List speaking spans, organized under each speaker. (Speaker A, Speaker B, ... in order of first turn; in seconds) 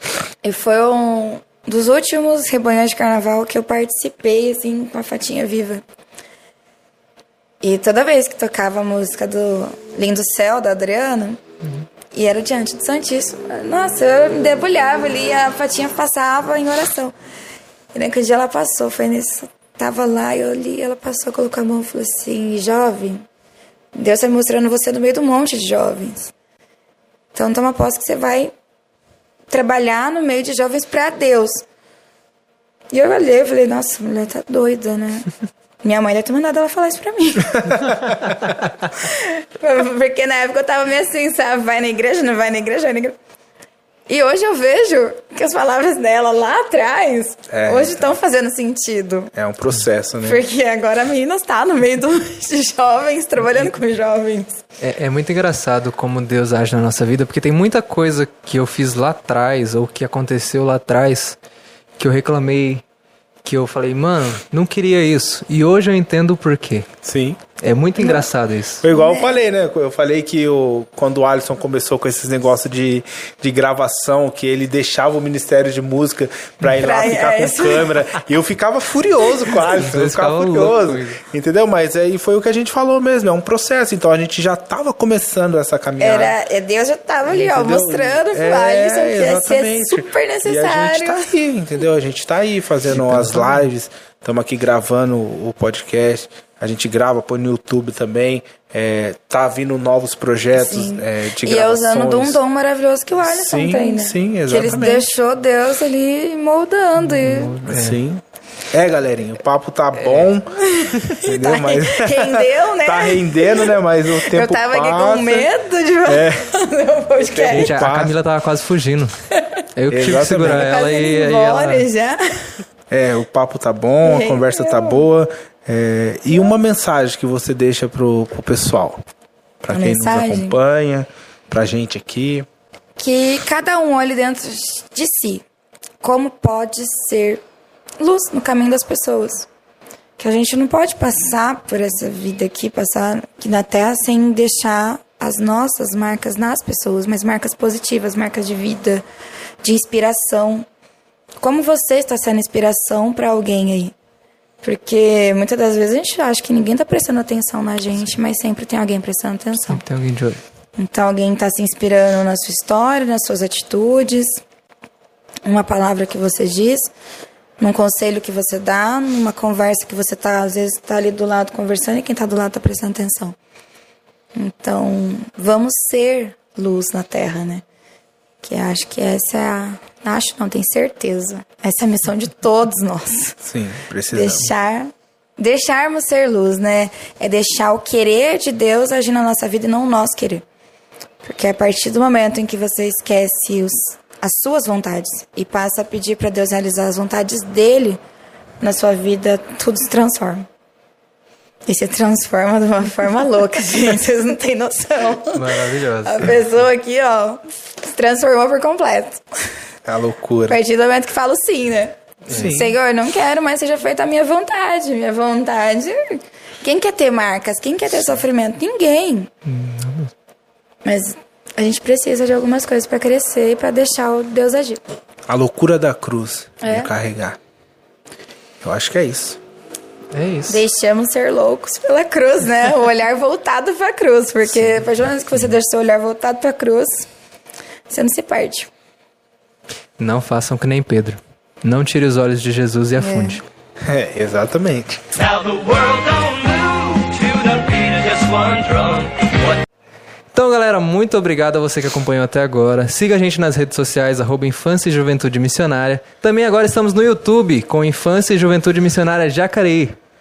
Speaker A: 0.4-5.8, 7.6-11.4, 12.1-17.1, 17.9-23.3, 23.9-26.3, 27.3-28.5, 29.5-31.6, 32.9-35.3, 35.8-37.9, 38.9-43.2, 44.1-49.3, 50.2-54.6, 68.0-68.3, 68.9-69.4, 76.7-78.0, 86.0-91.3, 100.5-107.6, 110.6-117.8, 120.5-122.5, 124.0-125.0, 126.3-126.6, 129.7-130.6, 133.0-135.4, 136.0-137.4, 138.0-139.5, 140.2-149.1, 149.6-150.7, 151.4-153.9, 154.6-159.8, 160.8-164.4, 165.4-166.9, 167.6-173.4, 174.3-177.6, 178.4-183.4, 184.1-190.4, 191.2-198.0, 198.6-200.5, 201.7-209.2, 210.5-219.3, 220.8-224.8, 226.6-226.9, 230.5-237.1, 237.9-238.7, 243.0-243.4
Speaker B: 37.6-38.4, 47.5-48.1, 49.4-50.4, 67.0-67.4, 68.8-86.4, 87.3-102.4, 103.2-105.1, 107.7-115.5, 116.1-116.5, 117.3-118.2, 119.9-120.7, 122.9-129.0, 129.6-132.5, 183.4-184.5, 209.9-210.6, 212.3-212.7, 225.3-227.4, 228.6-229.4, 243.8-245.3
Speaker C: 54.8-61.4, 62.0-62.8, 63.4-66.9, 67.6-68.8, 79.7-81.2, 92.9-93.6, 107.0-108.0, 110.0-110.3, 117.5-119.2, 119.8-121.9, 159.7-160.4, 205.3-206.4, 212.3-212.6, 219.5-220.1, 230.1-230.6, 240.0-243.4, 245.7-249.1, 250.3-260.0